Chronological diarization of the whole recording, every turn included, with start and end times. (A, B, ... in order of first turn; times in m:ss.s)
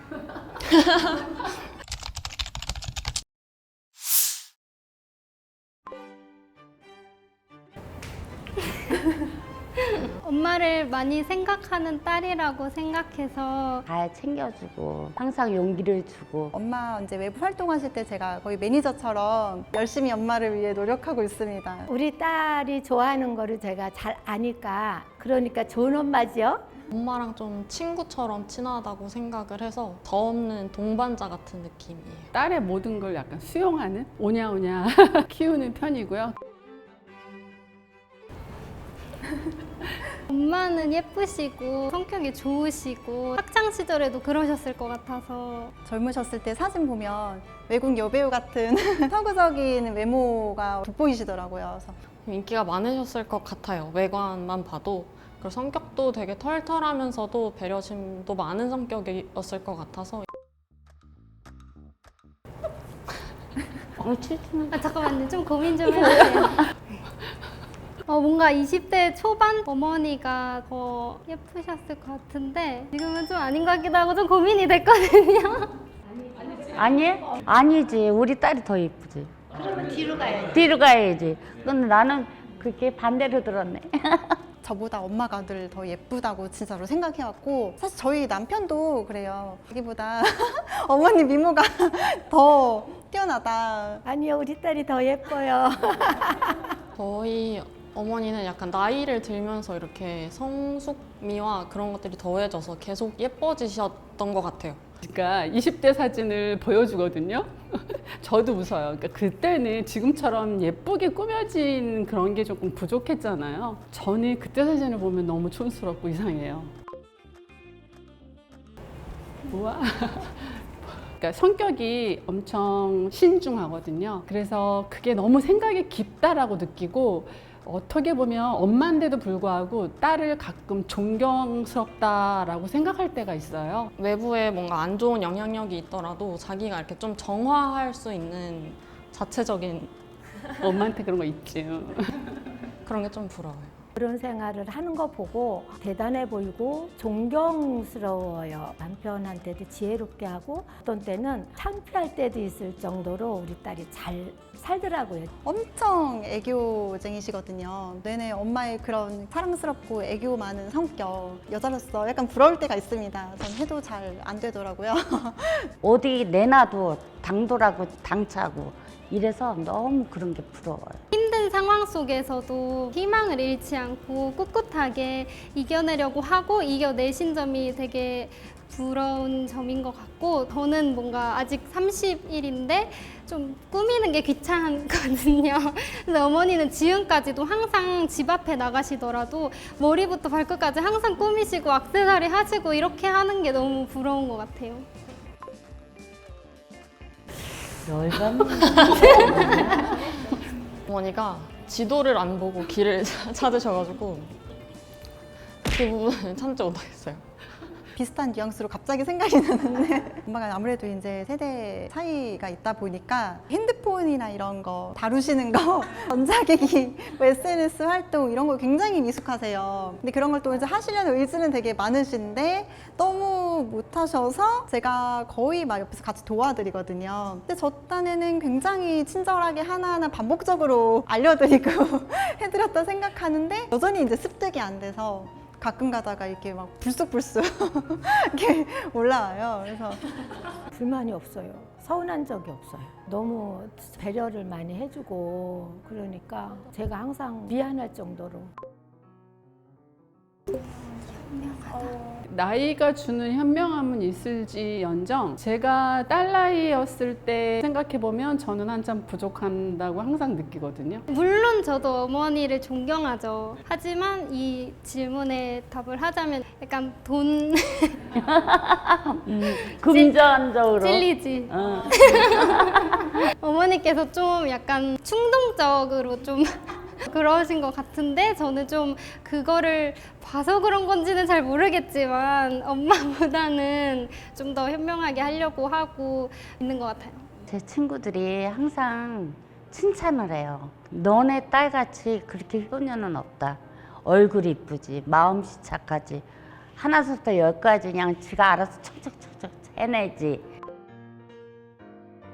0:09.8-0:13.9 A
0:13.9-0:16.5 B
0:16.5-0:21.9 C
0:21.9-0:26.6 D
0:26.9-0:32.3 E
0:32.3-0:36.4 F
0:40.3-0:45.8 A
0:45.8-0:52.0 C
0:52.3-1:00.3 E
1:04.0-1:04.9 B
1:04.7-1:06.6 A
1:06.0-1:06.6 B
1:08.1-1:15.7 A
1:16.7-1:24.4 B
1:20.0-1:20.4 D
1:24.6-1:34.0 C
1:34.0-1:36.6 D
1:37.0-1:44.8 E
1:45.0-1:56.7 F
1:59.5-2:13.9 F
2:14.0-2:19.9 E
2:20.6-2:22.4 F
2:22.8-2:23.8 E
2:24.0-2:35.3 D
2:35.4-2:45.7 C
2:45.8-2:51.0 B
2:51.1-3:14.9 A
3:17.7-3:19.9 B
3:18.8-3:19.2 E
3:18.9-3:19.6 A
3:20.9-3:24.3 E
3:25.7-3:27.2 E
3:28.0-4:00.0 C
4:00.7-4:08.5 D
4:10.7-4:12.0 A
4:12.3-4:21.0 F
4:21.1-4:28.1 A
4:28.3-4:32.7 B
4:29.6-4:47.3 A
4:47.5-5:00.5 B